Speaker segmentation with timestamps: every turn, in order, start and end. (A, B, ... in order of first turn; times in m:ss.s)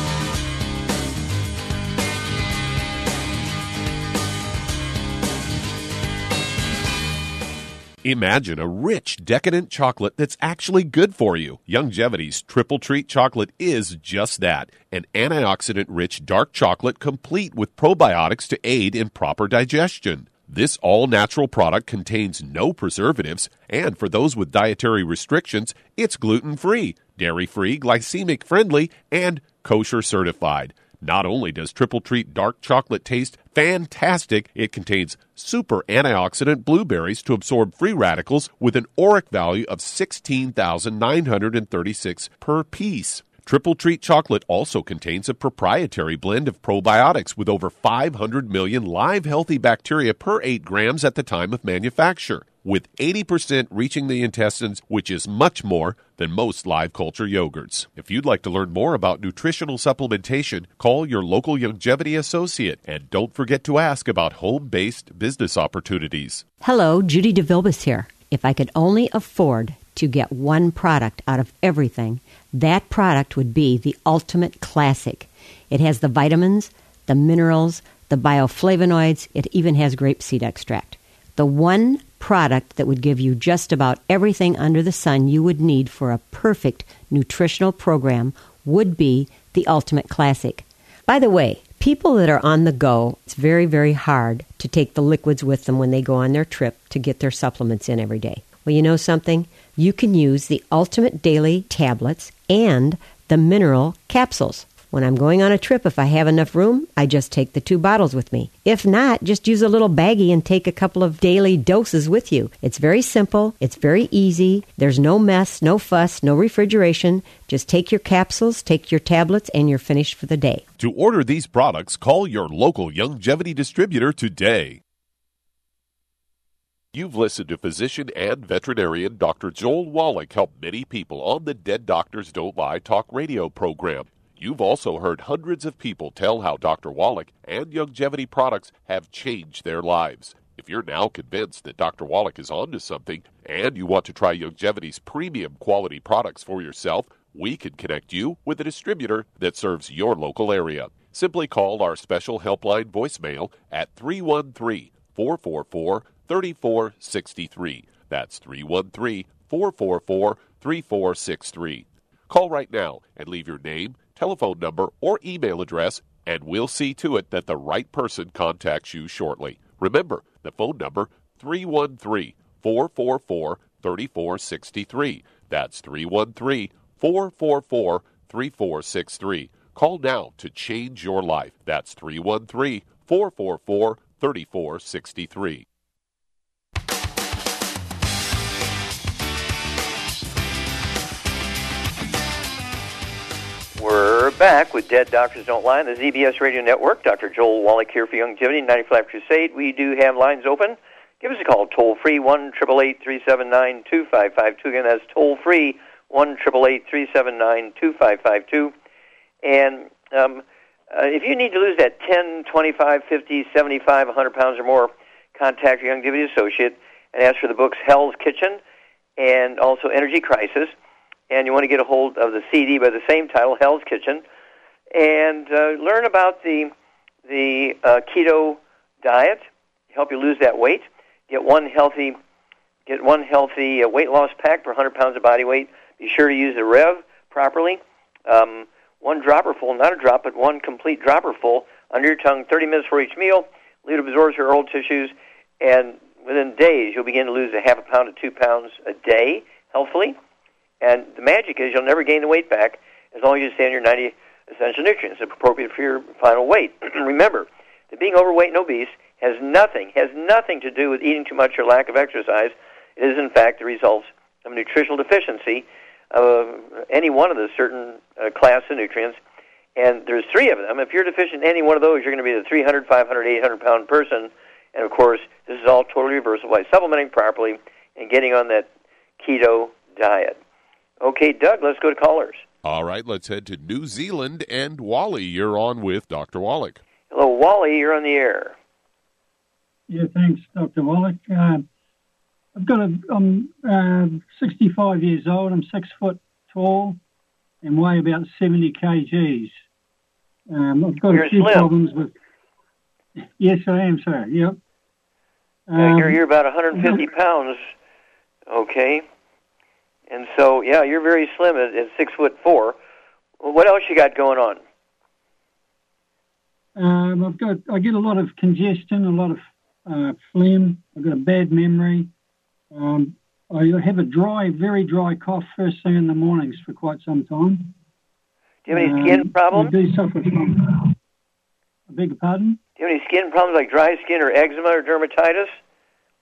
0:08.0-1:06.4 A
1:06.6-2:00.6 B
2:00.8-2:04.8 A
2:06.9-3:05.6 A
3:13.8-3:28.7 C
3:29.4-3:38.6 C
3:39.2-3:40.7 C
3:41.3-3:44.2 C
3:44.9-3:46.7 C
3:47.2-3:52.2 C
3:52.9-4:10.2 C
4:10.8-4:29.2 C
4:29.8-4:38.7 C
4:39.2-4:40.4 C
4:41.0-4:42.4 C
4:42.6-4:46.8 A
4:47.1-4:48.6 C
4:49.9-4:51.6 D
4:52.5-4:57.0 D
4:57.6-4:59.6 D
5:00.5-5:02.1 D
5:01.1-5:01.7 C
5:03.2-5:04.6 D
5:05.7-5:07.0 D
5:05.8-5:07.7 C
5:08.5-5:09.0 C
5:10.1-5:12.8 C
5:13.4-5:14.6 C
5:16.8-5:22.1 D
5:22.7-5:27.7 D
5:28.6-5:29.7 C
5:28.7-5:30.9 D
5:31.9-5:32.6 D
5:32.8-5:35.5 C